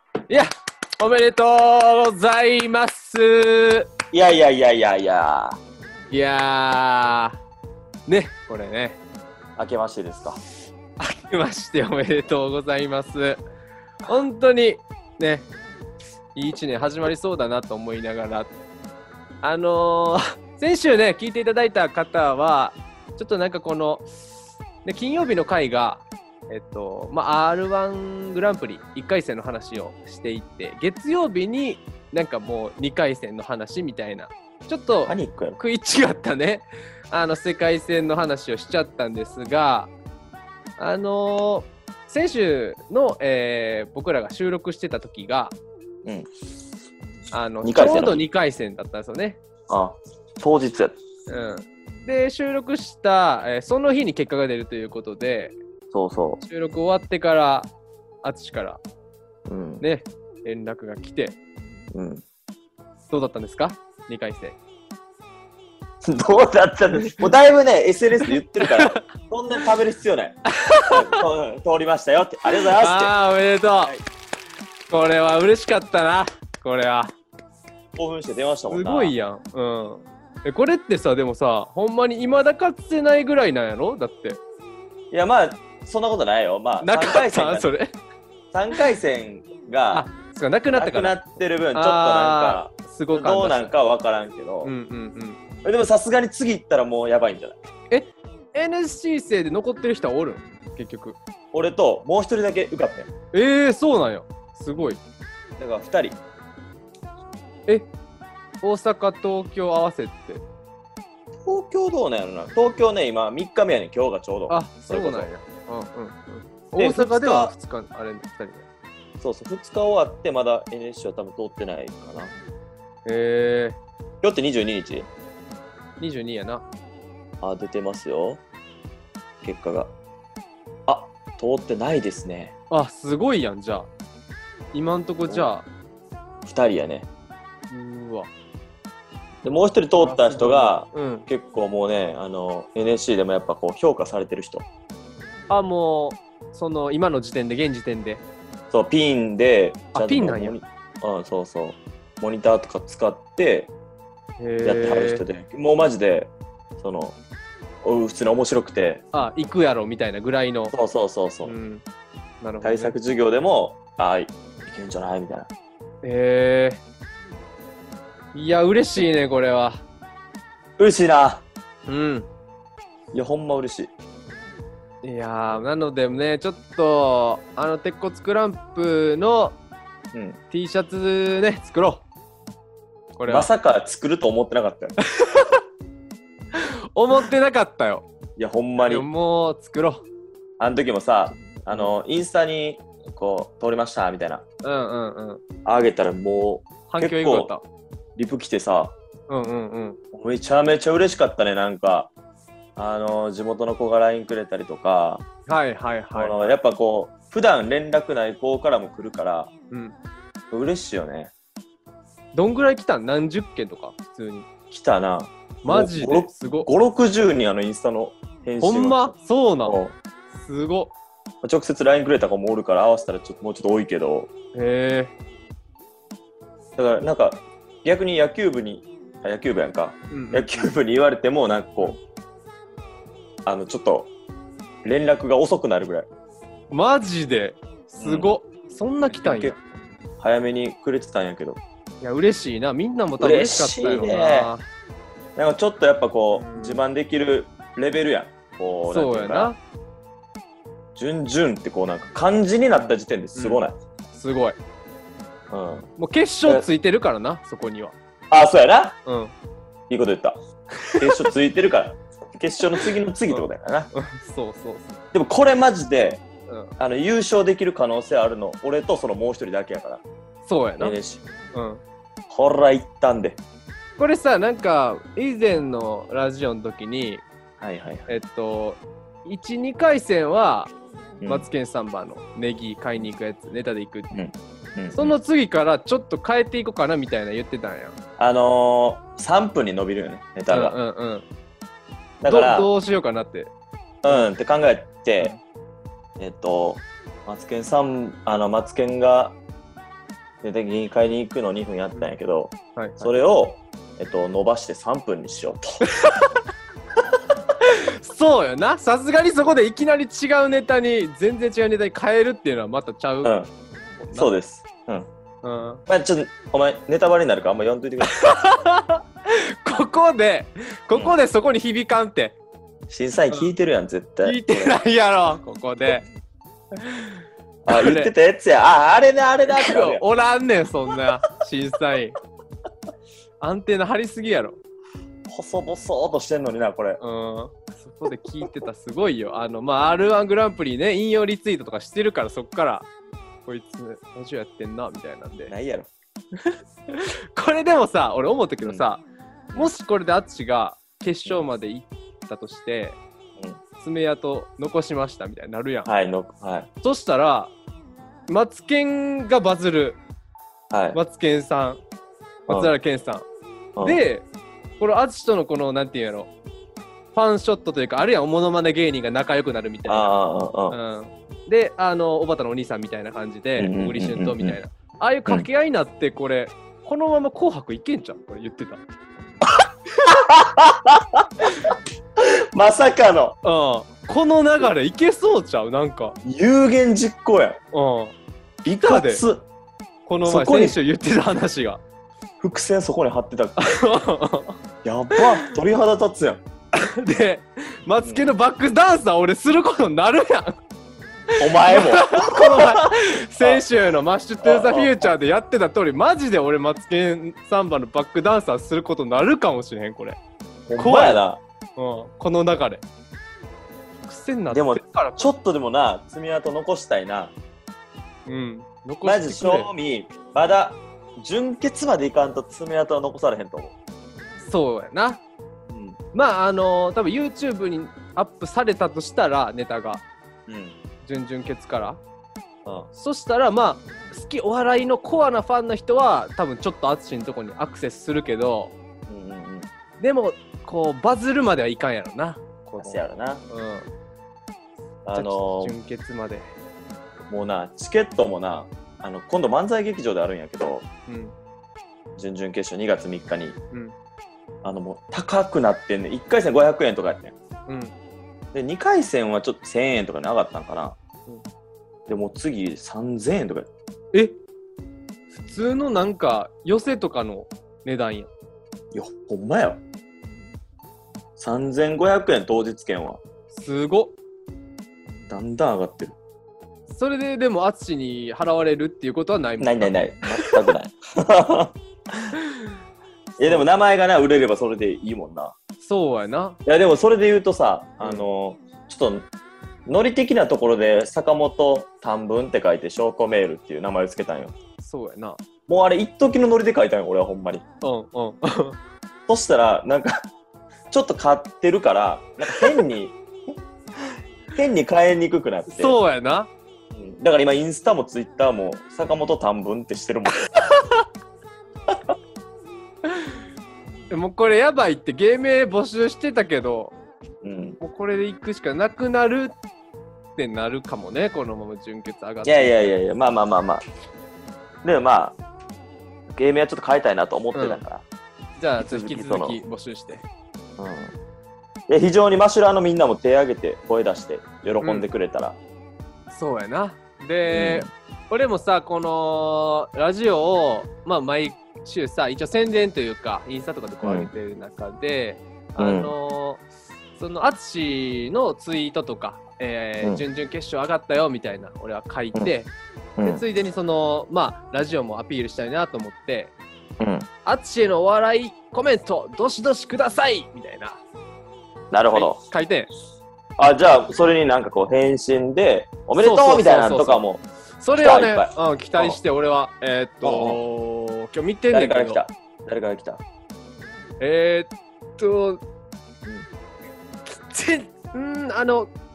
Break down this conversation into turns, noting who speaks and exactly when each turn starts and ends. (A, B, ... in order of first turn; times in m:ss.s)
0:00.3-0:03.9 A
0:04.1-0:05.6 B
0:06.1-0:07.4 A
0:08.1-0:09.0 A
0:09.6-0:10.4 B
0:11.0-0:13.4 A
0:14.0-0:15.5 A
0:16.3-0:18.5 A
0:19.4-0:24.1 A
0:24.8-0:39.9 A
0:35.1-0:35.6 B
0:40.8-0:45.6 A
0:47.3-0:49.4 A
0:47.6-0:48.2 B
0:49.7-0:51.0 B
0:51.3-0:55.6 A
0:55.9-0:56.4 B
0:56.4-0:57.7 A
0:58.2-0:58.8 A
0:59.5-0:59.8 B
0:59.8-1:01.4 A
1:01.9-1:02.2 B
1:03.1-1:04.6 A
1:06.0-1:10.4 B
1:06.9-1:07.2 A
1:08.3-1:09.1 A
1:10.5-1:11.2 A
1:10.9-1:13.1 B
1:12.5-1:14.0 A
1:14.9-1:17.1 A
1:17.9-1:19.1 B
1:18.7-1:24.4 A
1:25.1-1:27.7 B
1:26.8-1:27.9 A
1:28.5-1:30.0 B
1:29.9-1:31.2 A
1:30.7-1:34.7 B
1:31.7-1:33.7 A
1:34.6-1:35.4 A
1:35.6-1:37.6 B
1:37.9-1:41.2 A
1:41.5-1:43.1 B
1:43.3-1:45.0 A
1:45.6-1:46.2 B
1:48.6-1:50.4 A
1:51.4-1:55.3 B
1:54.5-1:58.6 A
1:56.8-1:57.5 B
1:59.2-2:02.3 B
2:03.0-2:03.8 A
2:04.2-2:05.1 B
2:06.0-2:06.6 A
2:07.4-2:08.4 B
2:09.4-2:09.9 B
2:10.9-2:12.5 B
2:12.7-2:13.9 A
2:14.7-2:15.7 A
2:16.4-2:17.1 B
2:17.7-2:18.3 A
2:19.4-2:24.6 B
2:19.9-2:21.3 A
2:25.5-2:28.2 A
2:28.7-2:33.7 B
2:29.9-2:30.6 A
2:34.4-2:35.2 A
2:34.6-2:37.2 B
2:37.8-2:39.1 B
2:39.1-2:40.7 A
2:40.7-2:41.6 B
2:41.4-2:41.8 A
2:42.4-2:42.9 A
2:42.6-2:45.5 B
2:46.0-2:46.8 A
2:48.3-2:49.8 A
2:50.8-2:51.4 B
2:51.9-2:52.3 A
2:53.1-2:53.9 B
2:55.0-2:59.6 A
3:00.1-3:00.4 B
3:00.5-3:02.0 A
3:03.2-3:03.5 A
3:03.3-3:05.0 B
3:05.1-3:05.6 A
3:06.5-3:08.0 A
3:08.4-3:09.1 B
3:08.8-3:10.0 A
3:10.6-3:14.4 B
3:14.6-3:15.4 A
3:15.6-3:17.5 B
3:16.9-3:17.6 A
3:18.2-3:18.9 B
3:19.3-3:20.0 A
3:20.1-3:22.1 B
3:22.8-3:25.2 B
3:25.5-3:26.5 A
3:26.1-3:29.5 B
3:29.7-3:30.0 A
3:30.5-3:31.3 B
3:32.3-3:34.5 A
3:34.7-3:39.1 B
3:35.6-3:36.7 A
3:38.6-3:39.8 A
3:39.6-3:40.0 B
3:40.3-3:40.9 A
3:41.4-3:44.3 B
3:44.5-3:45.1 A
3:46.8-3:52.0 B
3:50.1-3:50.7 A
3:53.4-3:54.1 B
3:54.8-3:56.1 B
3:56.7-3:59.6 A
3:58.0-3:58.4 B
3:59.1-3:59.6 B
4:00.2-4:01.6 B
4:02.0-4:04.7 A
4:03.2-4:04.5 B
4:05.4-4:09.5 B
4:06.3-4:06.8 A
4:08.9-4:09.6 A
4:11.0-4:13.8 B
4:12.8-4:14.6 A
4:15.5-4:15.9 B
4:16.0-4:17.9 A
4:18.3-4:19.0 B
4:19.0-4:19.3 A
4:19.9-4:20.4 B
4:20.8-4:21.2 A
4:20.9-4:23.9 B
4:23.3-4:25.0 A
4:25.1-4:26.2 B
4:26.8-4:30.0 B
4:30.4-4:31.0 A
4:30.8-4:31.2 B
4:31.5-4:31.8 A
4:32.3-4:33.4 B
4:34.0-4:37.2 A
4:37.6-4:38.1 B
4:38.1-4:40.7 A
4:41.2-4:41.4 B
4:41.3-4:44.1 A
4:44.1-4:45.1 B
4:44.9-4:47.9 A
4:48.2-4:50.8 B
4:50.5-4:51.2 A
4:52.2-4:52.7 B
4:52.2-4:53.5 A
4:54.0-4:55.3 B
4:56.2-4:59.4 B
5:00.4-5:05.8 B
5:02.8-5:03.1 A
5:05.8-5:06.4 A
5:07.6-5:13.3 A
5:13.2-5:13.5 B
5:14.0-5:14.3 A
5:14.1-5:15.1 B
5:15.4-5:15.8 A
5:15.9-5:18.1 B
5:18.0-5:22.4 A
5:22.9-5:24.8 B
5:24.2-5:26.0 A
5:26.8-5:28.1 A
5:27.6-5:30.0 B
5:29.5-5:32.2 A
5:33.4-5:34.6 A
5:35.3-5:37.0 B
5:37.0-5:42.9 A
5:43.4-5:45.5 A
5:45.5-5:45.9 B
5:46.9-5:49.0 A
5:49.5-5:53.0 A
5:53.8-5:55.9 A
5:55.8-5:56.7 B
5:56.8-5:57.5 A
5:58.3-6:00.0 A
6:00.7-6:01.0 B
6:00.9-6:01.8 A
6:02.5-6:02.7 B
6:02.5-6:03.2 A
6:03.8-6:04.2 A
6:04.8-6:06.3 A
6:07.1-6:10.1 A
6:09.9-6:10.8 B
6:10.7-6:18.8 A
6:13.6-6:14.6 B
6:19.4-6:23.4 B
6:23.4-6:26.2 A
6:26.2-6:27.6 B
6:27.7-6:28.1 A
6:28.6-6:29.4 B
6:28.7-6:29.2 A
6:30.0-6:31.8 A
6:30.2-6:30.8 B
6:32.4-6:33.7 B
6:33.6-6:34.6 A
6:34.8-6:36.4 B
6:35.1-6:35.5 A
6:36.8-6:40.6 A
6:38.0-6:38.3 B
6:41.4-6:42.8 B
6:41.5-6:50.2 A
6:43.4-6:43.6 B
6:44.4-6:45.1 B
6:50.7-6:51.4 B
6:50.8-6:51.2 A
6:51.8-6:52.8 A
6:54.0-6:55.3 A
6:54.5-6:57.3 B
6:58.3-6:59.7 A
6:59.0-7:03.7 B
7:04.4-7:05.2 A
7:05.7-7:06.0 B
7:06.1-7:10.0 A
7:10.5-7:10.8 B
7:11.0-7:12.0 A
7:12.9-7:18.7 A
7:19.1-7:19.7 B
7:20.0-7:23.9 A
7:22.8-7:23.4 B
7:25.0-7:25.7 B
7:25.1-7:26.5 A
7:27.3-7:30.9 B
7:31.1-7:31.3 A
7:32.2-7:33.6 B
7:34.6-7:37.3 B
7:37.7-7:37.9 A
7:38.5-7:41.0 B
7:42.1-7:43.7 B
7:45.3-7:48.3 A
7:48.9-7:49.8 B
7:51.4-7:53.2 B
7:53.5-7:54.1 A
7:55.3-7:56.2 B
7:56.9-8:00.0 A
7:59.6-8:02.3 B
8:03.4-8:05.6 B
8:03.4-8:03.7 A
8:05.8-8:06.6 A
8:06.6-8:09.3 B
8:09.9-8:14.5 B
8:14.8-8:15.4 A
8:15.7-8:17.6 B
8:17.8-8:18.8 A
8:19.3-8:20.2 B
8:20.9-8:23.2 B
8:24.5-8:26.0 B
8:25.7-8:26.5 A
8:26.9-8:30.4 B
8:33.0-8:33.4 A
8:34.1-8:37.0 A
8:37.4-8:37.8 B
8:37.8-8:39.6 A
8:40.4-8:42.8 A
8:42.4-8:43.8 B
8:44.8-8:45.4 B
8:46.3-8:48.0 B
8:47.5-8:47.8 A
8:48.6-8:50.2 A
8:48.8-8:49.6 B
8:50.8-8:51.1 B
8:51.9-8:55.6 B
8:54.8-8:55.1 A
8:56.3-9:06.6 A
8:57.5-8:57.9 B
9:04.0-9:04.3 B
9:05.8-9:06.1 B
9:07.2-9:16.5 A
9:13.2-9:13.4 B
9:17.0-9:17.3 B
9:17.4-9:21.0 A
9:21.9-9:22.4 B
9:22.1-9:22.9 A
9:23.6-9:27.4 B
9:26.2-9:27.2 A
9:27.8-9:32.2 A
9:27.9-9:29.2 B
9:30.2-9:30.6 B
9:31.7-9:33.2 B
9:34.2-9:35.6 A
9:37.3-9:38.9 A